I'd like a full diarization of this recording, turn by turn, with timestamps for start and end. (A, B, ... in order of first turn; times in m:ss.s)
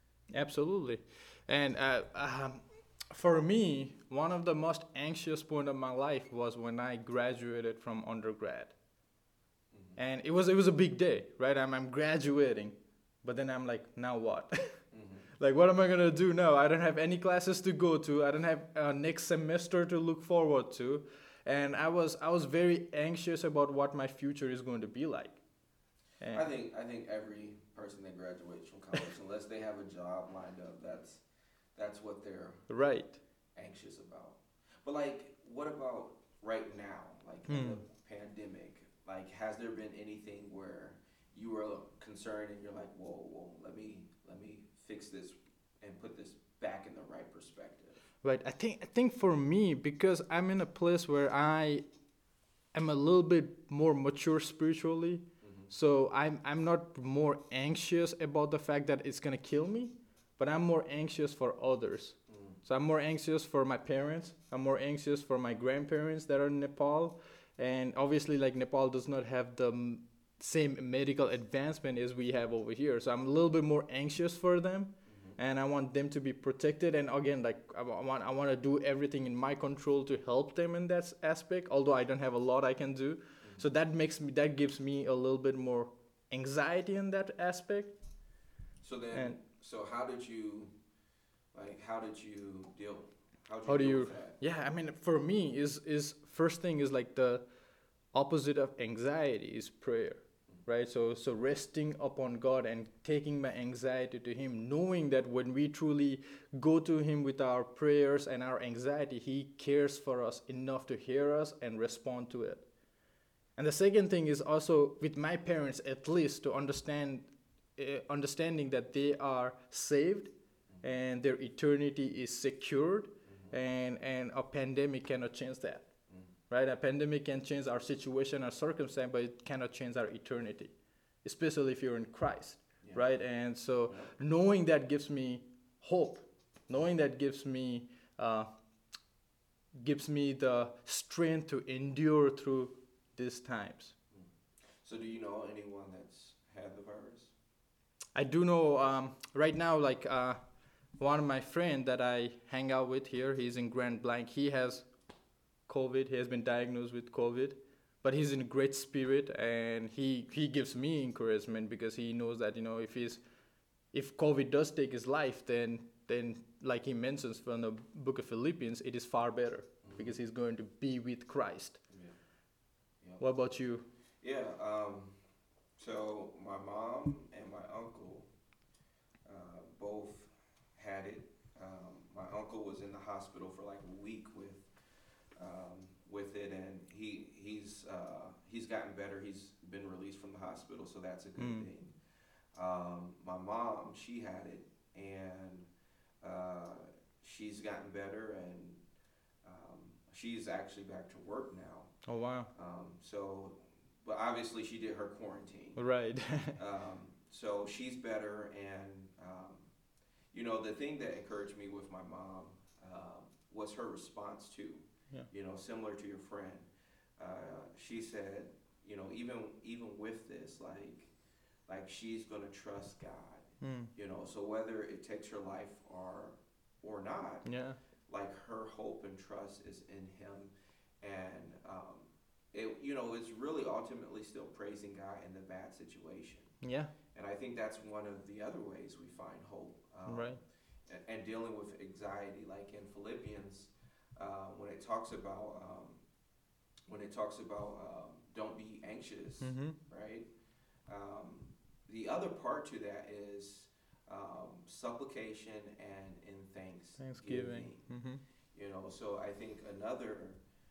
0:00.3-0:08.7 A
0:09.7-0:10.0 B
0:10.0-0:14.8 A
0:14.9-0:15.3 B
0:15.4-0:25.4 A
0:26.3-0:31.2 B
0:31.7-0:32.6 B
0:32.7-0:33.2 A
0:33.5-0:48.0 B
0:37.5-0:37.8 A
0:48.2-0:51.8 A
0:52.7-1:28.0 A
0:55.4-0:55.7 B
1:02.3-1:02.6 B
1:15.1-1:15.4 B
1:28.8-1:30.7 B
1:31.5-1:34.4 B
1:33.6-1:37.4 A
1:38.1-1:52.6 A
1:53.6-2:05.9 A
2:03.2-2:03.6 B
2:06.5-2:10.7 A
2:11.2-2:18.5 A
2:19.8-2:23.9 A
2:24.8-2:27.3 B
2:28.1-2:30.4 A
2:31.0-2:34.9 A
2:35.7-2:43.2 A
2:43.9-2:51.8 A
2:49.8-2:50.1 B
2:51.9-2:52.2 B
2:53.2-2:53.9 A
2:54.2-2:55.2 B
2:55.8-2:58.3 B
2:59.2-3:04.7 B
3:05.4-3:11.9 B
3:11.4-3:11.7 A
3:12.5-3:15.7 B
3:16.2-3:18.8 B
3:19.4-3:21.9 B
3:22.0-3:22.5 A
3:22.5-3:25.8 B
3:25.8-3:26.6 A
3:26.6-3:29.7 B
3:30.3-3:41.1 B
3:41.7-3:47.4 B
3:43.6-3:43.9 A
3:47.4-3:47.8 A
3:48.1-3:56.5 B
3:56.6-3:56.9 A
3:57.1-4:06.0 B
4:00.1-4:00.4 A
4:06.9-4:10.3 B
4:09.4-4:09.8 A
4:10.9-4:17.8 B
4:17.0-4:18.2 A
4:18.5-4:20.4 B